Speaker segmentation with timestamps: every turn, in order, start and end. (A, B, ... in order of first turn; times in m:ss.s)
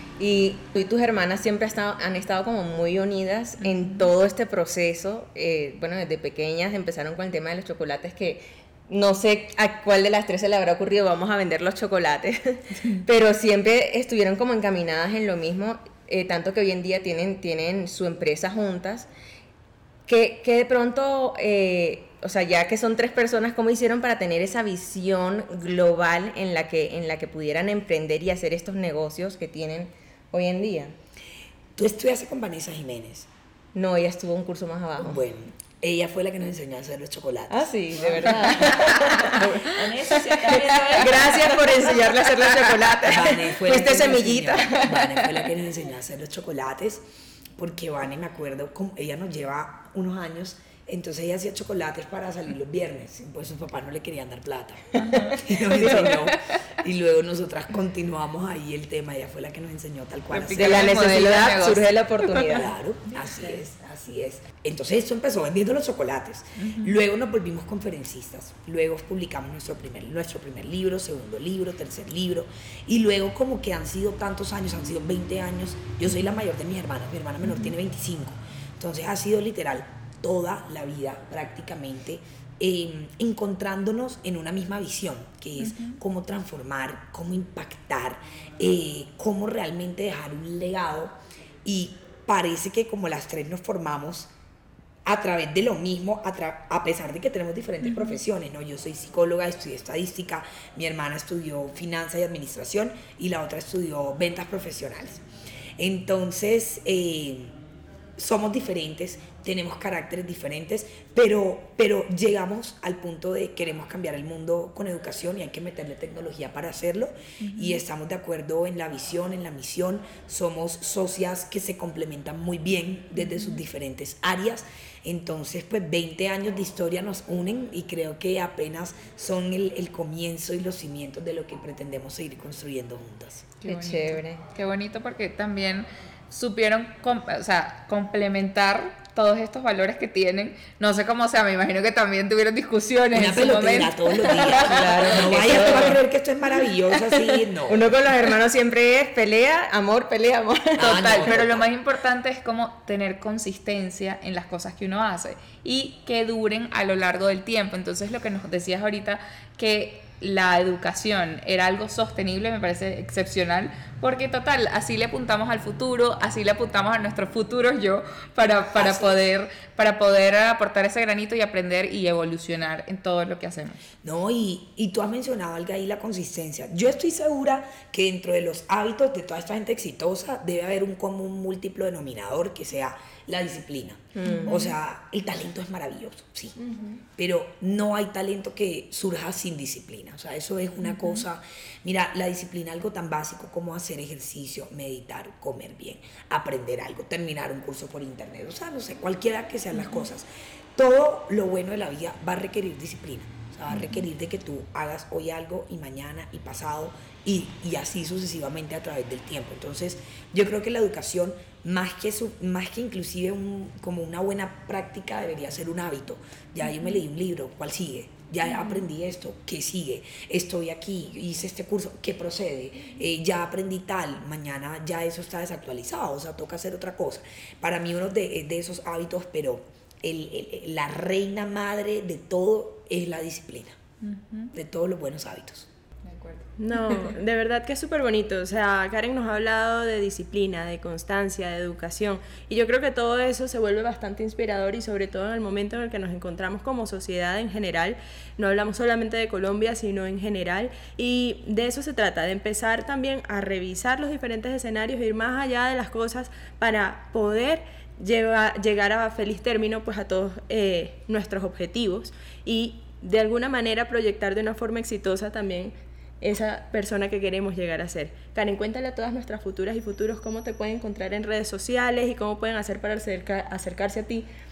0:00.2-0:19.1 A
0:03.6-0:04.1 B
0:20.1-0:31.0 A
0:31.8-0:33.3 C
0:33.7-0:35.2 A
0:35.0-0:39.3 C
0:37.5-0:45.2 A
0:38.4-0:39.0 B
0:39.4-0:41.5 D
0:40.1-0:41.0 C
0:40.2-0:43.3 B
0:43.0-0:47.0 C
0:47.6-1:01.0 C
0:55.0-0:56.1 B
0:55.7-0:56.3 A
1:00.3-1:02.6 B
1:00.5-1:02.7 A
1:02.5-1:34.3 C
1:03.2-1:03.6 B
1:06.6-1:06.9 B
1:17.4-1:17.7 B
1:25.6-1:26.0 B
1:35.0-1:45.2 C
1:37.8-1:38.2 B
1:45.8-1:47.6 C
1:48.2-2:13.5 C
1:57.4-1:57.8 B
2:03.2-2:03.6 B
2:13.6-2:25.9 B
2:13.6-2:14.4 A
2:23.1-2:28.0 C
2:24.5-2:26.0 A
2:27.0-2:31.5 A
2:30.8-2:31.7 C
2:30.8-2:53.8 B
2:48.5-2:49.2 C
2:54.0-3:06.6 C
3:04.1-3:04.7 A
3:04.2-3:04.7 B
3:06.6-3:07.0 D
3:07.2-3:53.8 C
3:10.8-3:11.2 B
3:19.8-3:20.0 B
3:23.7-3:24.0 B
3:38.4-3:38.8 B
3:54.0-3:54.5 B
3:54.5-3:55.7 C
3:56.0-3:56.5 B
3:56.6-4:34.3 D